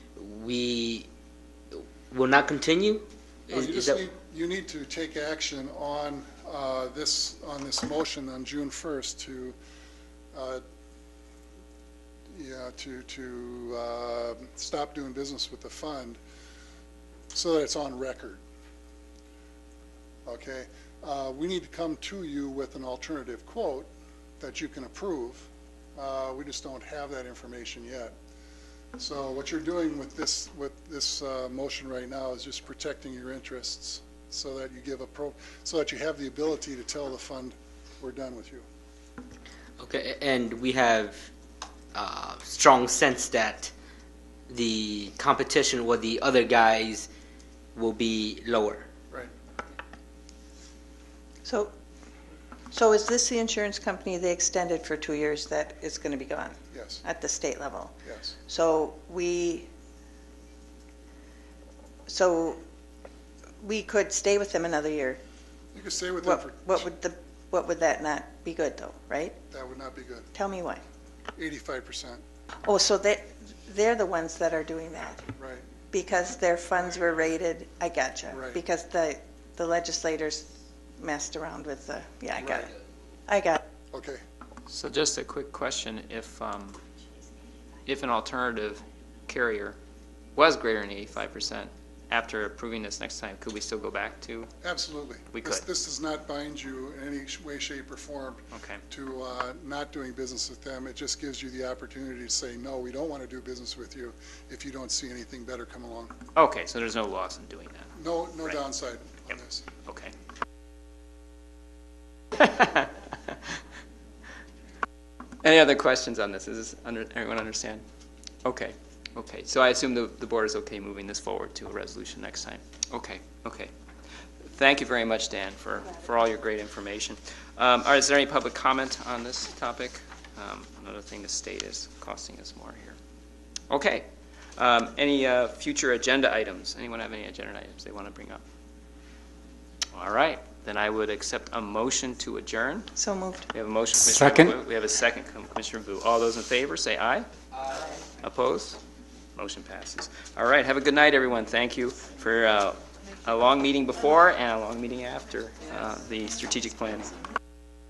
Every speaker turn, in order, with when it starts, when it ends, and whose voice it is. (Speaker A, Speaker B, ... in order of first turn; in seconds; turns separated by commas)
Speaker A: 0.2-1.1, Speaker A: 1.7-4.0, Speaker B: 3.5-9.6, Speaker B: 10.3-10.6, Speaker B: 12.3-16.2, Speaker B: 17.3-18.4, Speaker B: 20.2-23.9, Speaker B: 24.4-28.1, Speaker B: 29.0-38.6, Speaker A: 39.8-41.3, Speaker A: 41.9-43.7, Speaker A: 44.5-47.1, Speaker A: 47.8-48.9, Speaker C: 51.4-51.7, Speaker C: 52.7-58.0, Speaker B: 56.7-57.0, Speaker B: 58.0-58.3, Speaker C: 58.5-59.7, Speaker C: 62.1-62.6, Speaker C: 63.6-65.2, Speaker B: 65.7-66.9, Speaker C: 66.2-69.4, Speaker B: 69.5-70.3, Speaker C: 70.3-70.8, Speaker B: 71.4-72.2, Speaker C: 72.6-75.3, Speaker B: 75.3-75.6, Speaker C: 75.9-82.7, Speaker B: 78.3-78.6, Speaker C: 83.3-83.6, Speaker B: 83.9-84.2, Speaker D: 84.7-86.8, Speaker D: 87.9-89.8, Speaker D: 90.4-94.5, Speaker B: 94.6-106.1, Speaker D: 95.3-95.6, Speaker D: 98.5-98.8, Speaker D: 106.3-107.9, Speaker B: 108.0-109.6, Speaker D: 109.3-110.1, Speaker D: 112.4-112.8, Speaker D: 115.4-117.8, Speaker D: 118.5-123.7, Speaker D: 124.5-132.9, Speaker D: 133.7-134.1, Speaker D: 134.6-138.4, Speaker D: 139.9-142.9, Speaker C: 142.9-143.5, Speaker D: 143.5-147.3, Speaker D: 147.8-148.8, Speaker D: 149.3-157.2